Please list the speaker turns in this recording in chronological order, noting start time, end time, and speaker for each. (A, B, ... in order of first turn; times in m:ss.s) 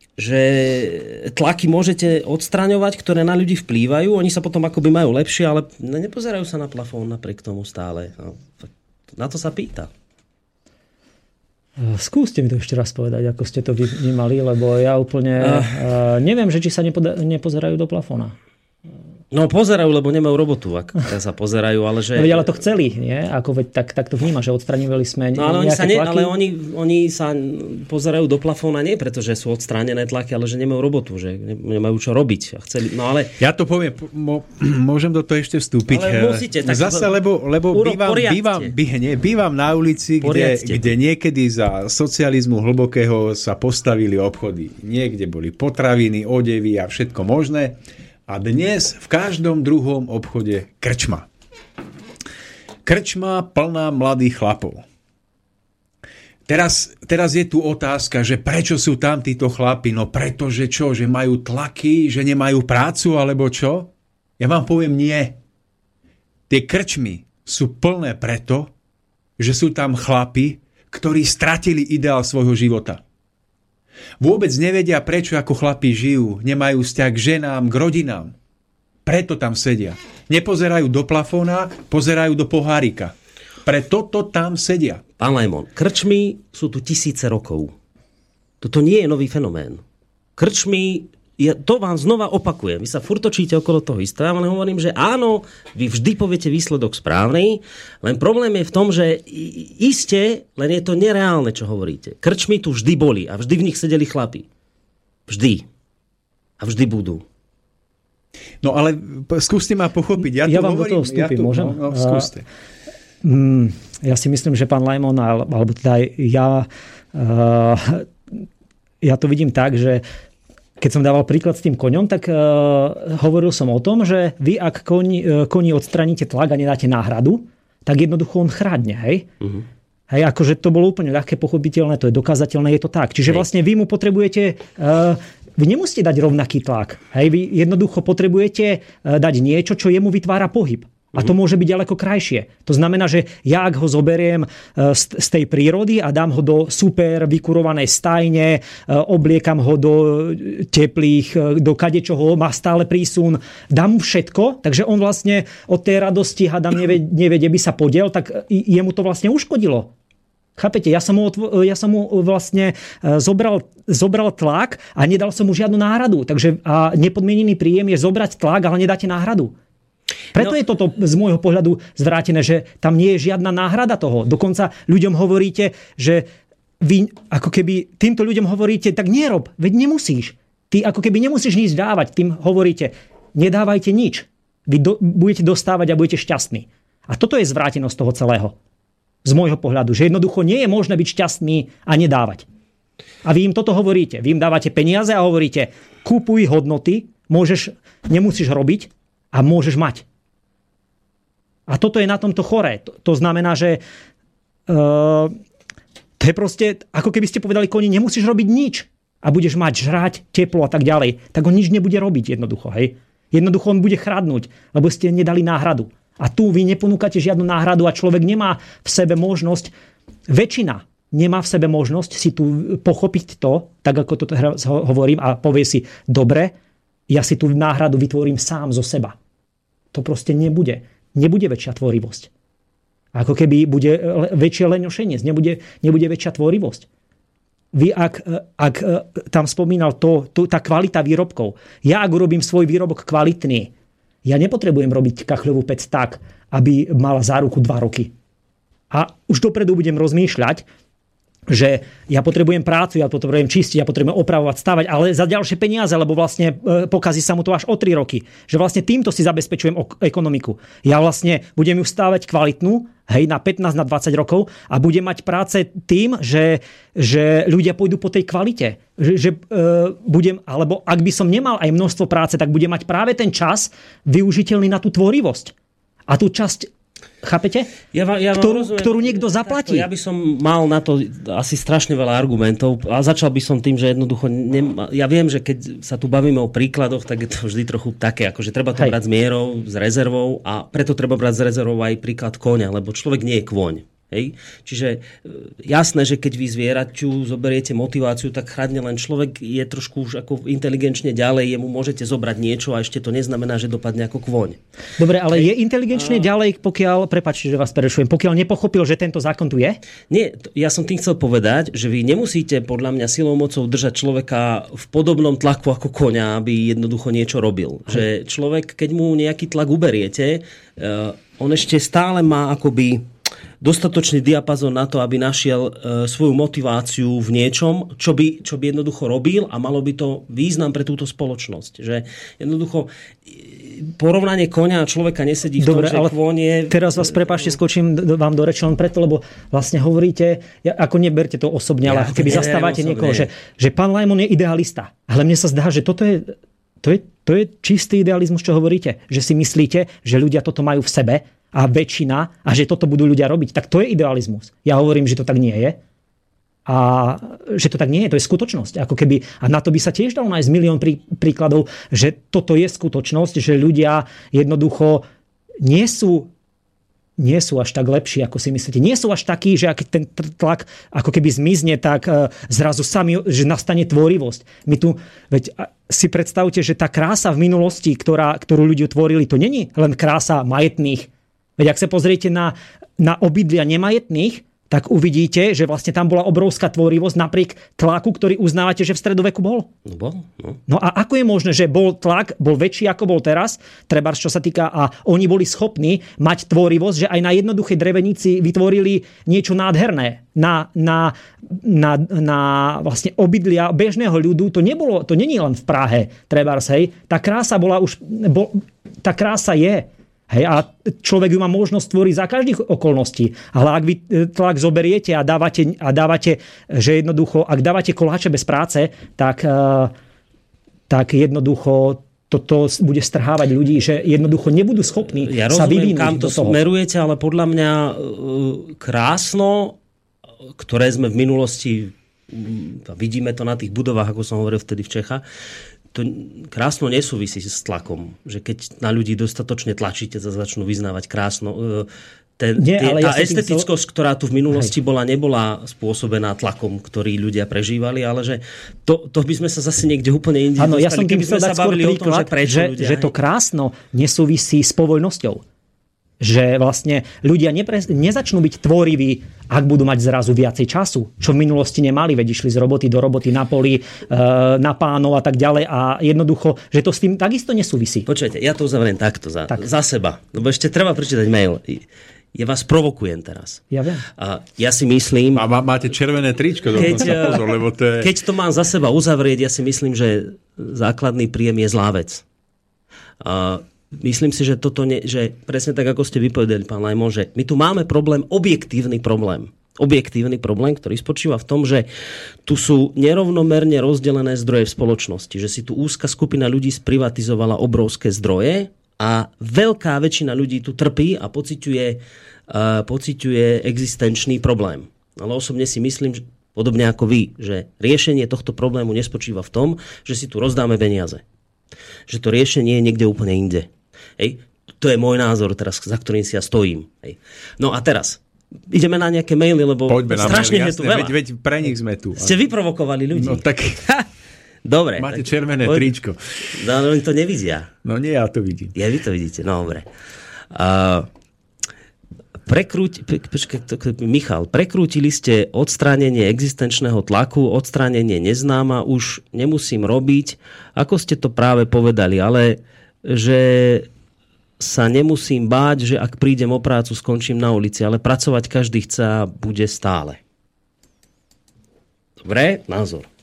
0:00.2-0:09.9 A
0:11.8-0:18.3 B
0:15.4-0:15.8 A
0:19.3-0:22.6 A
0:22.1-0:26.3 B
0:25.4-0:33.4 A
0:33.4-0:51.3 C
0:35.9-0:37.2 A
0:37.7-0:38.7 A
0:40.2-0:40.9 A
0:52.8-0:54.8 C
0:56.5-1:05.4 C
1:06.5-1:08.7 C
1:09.4-1:13.0 C
1:14.2-1:18.3 C
1:19.0-1:23.1 C
1:23.6-1:25.0 C
1:25.2-1:27.7 A
1:28.6-1:29.8 A
1:30.4-1:44.4 A
1:45.3-1:45.6 A
1:46.6-1:47.2 A
1:48.6-1:52.4 C
1:50.2-1:52.3 B
1:53.2-1:58.1 B
1:59.0-2:00.0 B
2:00.8-2:09.3 B
2:10.1-2:39.9 B
2:40.6-2:49.5 B
2:50.3-2:56.2 B
2:56.8-3:08.6 B
3:09.2-3:12.4 B
3:13.2-3:20.0 B
3:21.7-3:23.8 B
3:24.7-3:25.4 B
3:26.2-3:39.7 B
3:40.3-3:46.5 B
3:47.1-3:49.2 B
3:49.9-3:52.3 B
3:53.1-3:56.9 B
3:57.7-4:03.7 B
4:04.2-4:08.1 B
4:08.9-4:10.6 B
4:11.5-4:35.5 B
4:36.1-4:36.7 B
4:37.2-4:37.7 B
4:37.9-5:04.6 A
4:38.4-4:39.9 B
5:05.0-5:09.8 B
5:06.0-5:06.3 A
5:10.1-5:23.0 A
5:23.6-5:37.4 A
5:35.6-5:36.1 B
5:36.7-5:55.8 B
5:41.8-5:43.3 A
5:56.6-6:05.0 B
6:05.6-6:06.3 B
6:07.2-6:29.7 B
6:29.8-6:30.6 A
6:30.7-6:59.9 B
7:00.9-7:06.6 B
7:05.1-7:09.8 A
7:10.5-7:15.2 A
7:15.9-7:33.1 A
7:22.6-7:23.7 B
7:30.6-7:35.4 B
7:36.2-7:48.1 B
7:48.1-7:53.6 A
7:53.7-7:54.0 B
7:54.2-7:55.5 A
7:55.3-7:58.1 C
7:56.8-8:02.2 A
8:03.2-8:11.9 A
8:12.4-8:31.2 A
8:32.1-8:41.1 A
8:39.9-8:42.4 C
8:42.2-8:44.0 A
8:43.1-8:43.8 C
8:44.6-8:45.9 A
8:45.0-8:46.5 C
8:46.5-8:47.7 A
8:47.8-8:48.7 C
8:48.7-8:49.9 A
8:50.5-8:51.1 A
8:52.4-9:03.9 A
9:04.6-9:10.2 A
9:12.2-9:13.1 A